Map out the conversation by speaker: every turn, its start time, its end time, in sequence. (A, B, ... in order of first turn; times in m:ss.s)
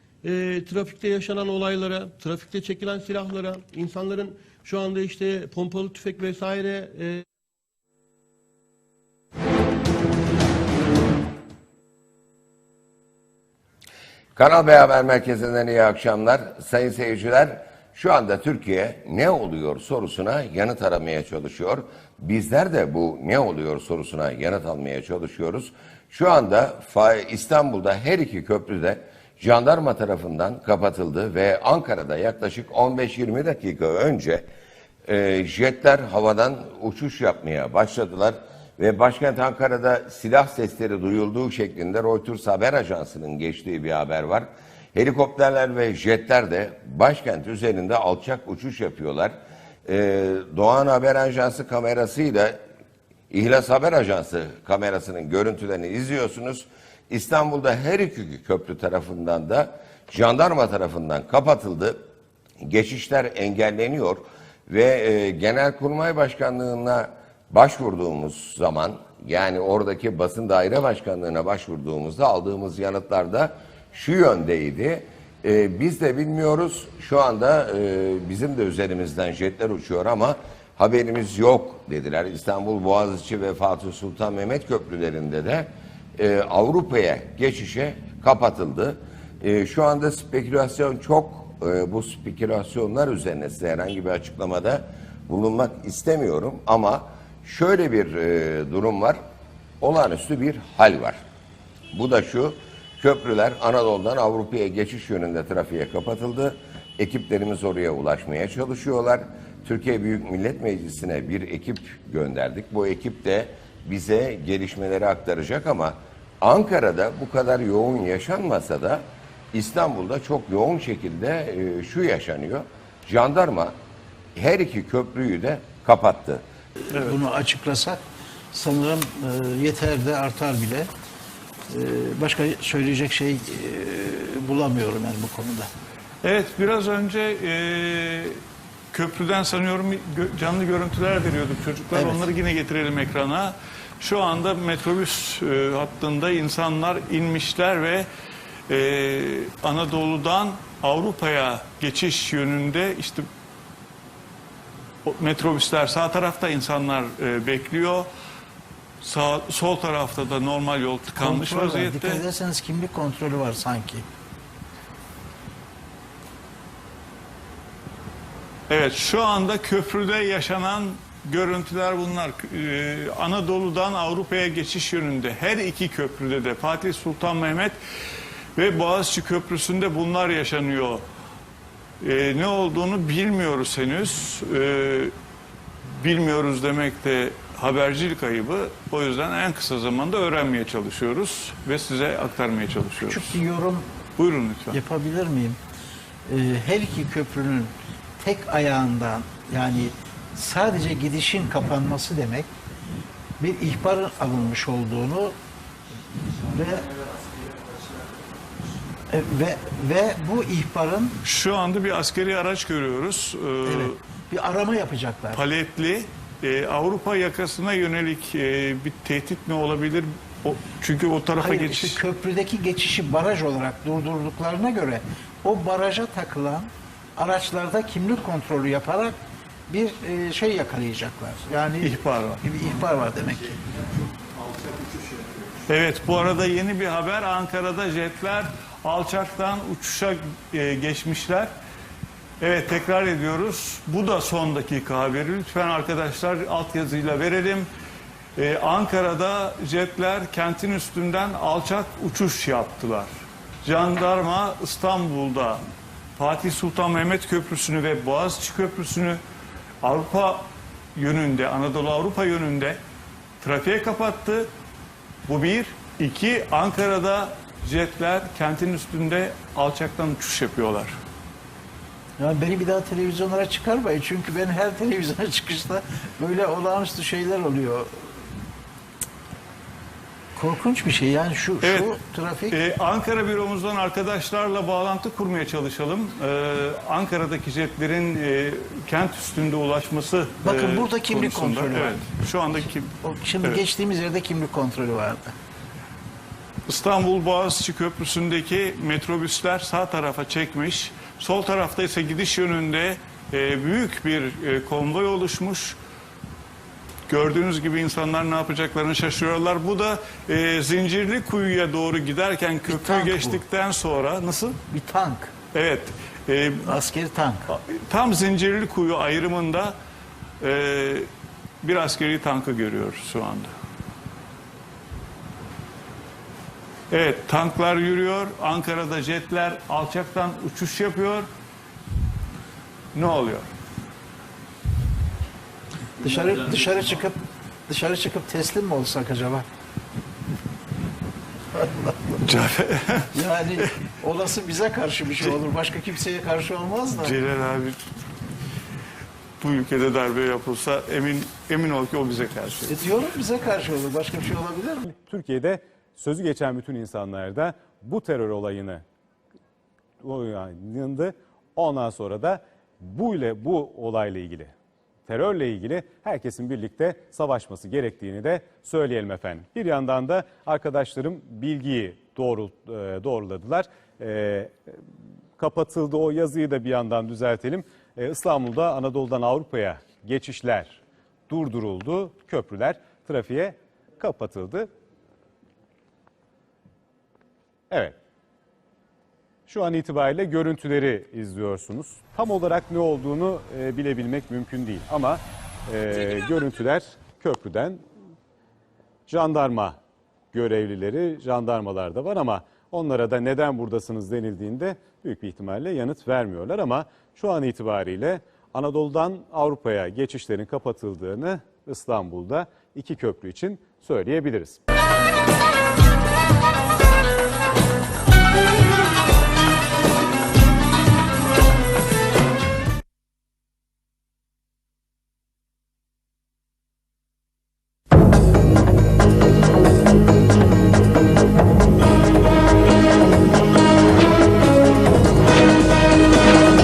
0:00.2-0:07.2 A
0:14.4-0:34.4 B
0:35.1-0:52.6 B
0:53.3-1:02.0 B
1:02.6-1:39.2 B
1:39.8-1:41.2 B
1:41.9-2:03.8 B
2:04.4-2:06.4 B
2:06.9-2:08.0 C
2:08.5-2:10.9 C
2:11.7-2:15.7 C
2:16.2-2:18.4 D
2:18.9-2:28.0 D
2:21.9-2:22.2 C
2:28.7-2:33.2 D
2:35.0-2:38.1 D
2:39.0-2:42.2 D
2:41.2-2:44.0 C
2:48.7-2:57.8 D
2:58.6-3:01.0 D
3:02.0-3:05.1 D
3:06.0-3:13.4 D
3:13.0-3:13.8 C
3:14.2-3:14.8 D
3:14.7-3:15.6 C
3:16.3-3:22.4 C
3:23.4-3:25.3 C
3:26.5-3:26.8 C
3:29.1-3:31.2 C
3:31.2-3:33.9 D
3:33.6-3:35.4 C
3:35.3-3:42.0 D
3:41.4-3:49.2 C
3:49.7-3:53.5 C
3:51.8-3:52.4 D
3:55.7-4:01.5 D
4:02.4-4:07.7 D
4:08.4-4:13.1 D
4:13.6-4:15.6 D
4:16.2-4:19.2 D
4:19.8-4:22.8 D
4:23.4-4:24.5 D
4:25.3-4:31.0 D
4:32.2-4:37.9 C
4:40.4-4:42.5 C
4:41.6-4:42.0 D
4:42.5-4:53.6 D
4:50.4-4:52.0 C
4:53.0-4:55.3 C
4:56.7-5:05.8 D
5:07.1-5:14.6 D
5:12.7-5:13.4 C
5:14.7-5:15.3 C
5:15.5-5:16.8 D
5:16.6-5:17.5 C
5:17.5-5:19.7 D
5:20.4-5:21.1 D
5:21.6-5:23.5 D
5:26.9-5:31.3 D
5:32.9-5:33.5 D
5:36.0-5:37.2 C
5:37.7-5:39.4 C
5:41.5-5:41.9 C
5:42.2-5:43.3 D
5:43.1-5:47.1 C
5:46.9-5:47.8 D
5:49.4-5:52.8 D
5:52.7-5:54.8 C
5:54.9-5:58.8 E
6:00.0-6:04.5 E
6:05.1-6:14.5 E
6:15.4-6:24.7 E
6:27.7-6:28.0 E
6:29.5-6:37.8 E
6:39.1-6:39.8 E
6:40.3-6:54.6 E